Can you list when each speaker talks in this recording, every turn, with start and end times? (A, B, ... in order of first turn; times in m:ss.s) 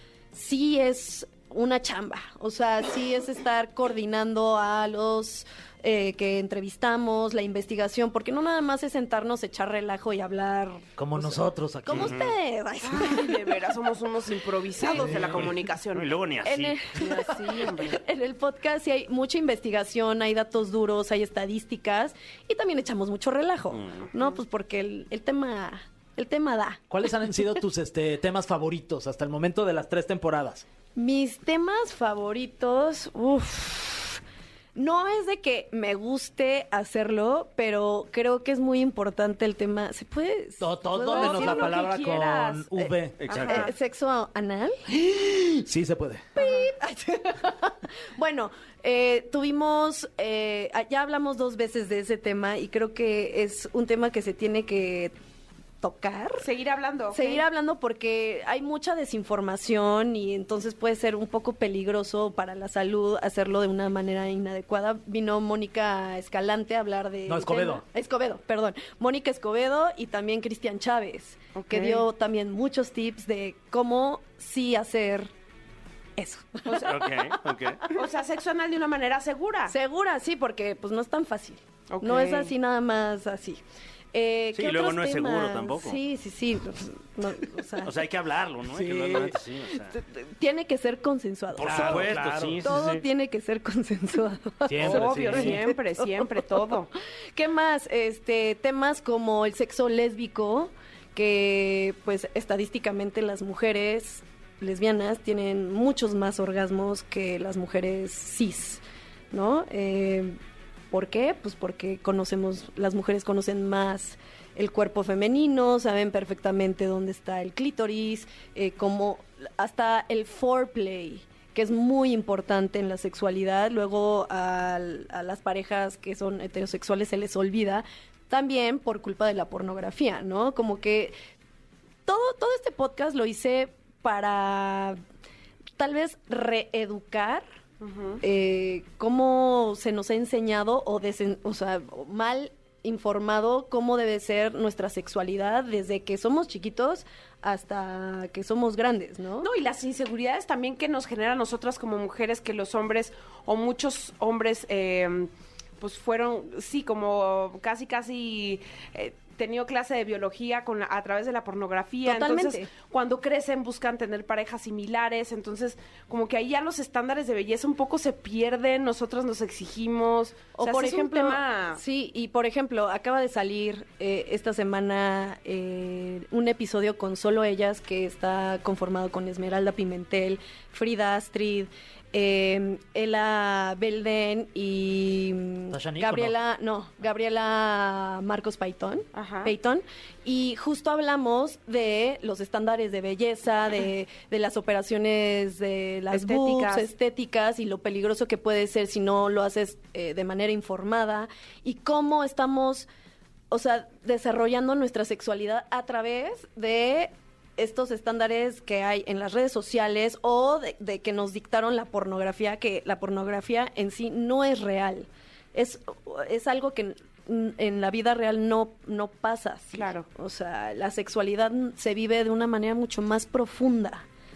0:00.3-0:13.4 A
0:11.0-0:12.2 B
0:11.9-0:12.3 C
0:12.8-0:16.2 D
0:14.8-0:15.4 A
0:14.9-0:17.0 C
0:15.1-0:15.5 B
0:16.4-0:26.8 A
0:17.0-0:18.0 D
0:23.7-0:24.1 C
0:26.9-0:30.6 B
0:31.0-0:34.2 A
0:34.8-0:44.8 A
0:40.6-0:43.3 B
0:41.1-0:42.0 D
0:43.2-0:43.7 C
0:43.3-0:43.7 D
0:44.9-0:46.3 B
0:46.4-0:55.1 A
0:46.4-0:46.7 D
0:55.8-0:56.5 A
0:56.4-0:57.4 D
0:57.1-1:15.3 A
1:07.3-1:07.8 B
1:11.6-1:12.0 D
1:16.2-1:18.0 A
1:16.7-1:17.0 D
1:16.8-1:17.8 C
1:17.9-1:19.7 D
1:19.7-1:23.6 A
1:21.9-1:22.5 D
1:24.1-1:28.0 A
1:24.5-1:26.0 C
1:27.8-1:30.0 C
1:28.6-1:29.4 B
1:29.8-1:50.4 A
1:31.5-1:33.0 C
1:31.6-1:32.7 B
1:34.6-1:35.6 B
1:34.8-1:36.9 D
1:35.1-1:35.6 C
1:50.9-2:11.1 A
2:12.1-2:15.0 A
2:15.8-2:17.4 A
2:17.8-2:18.2 D
2:18.2-2:29.5 A
2:29.4-2:51.8 D
2:42.0-2:42.7 A
2:50.6-3:22.9 A
3:05.7-3:06.4 B
3:09.1-3:09.5 D
3:16.1-3:16.9 D
3:23.5-3:44.1 A
3:39.7-3:40.1 D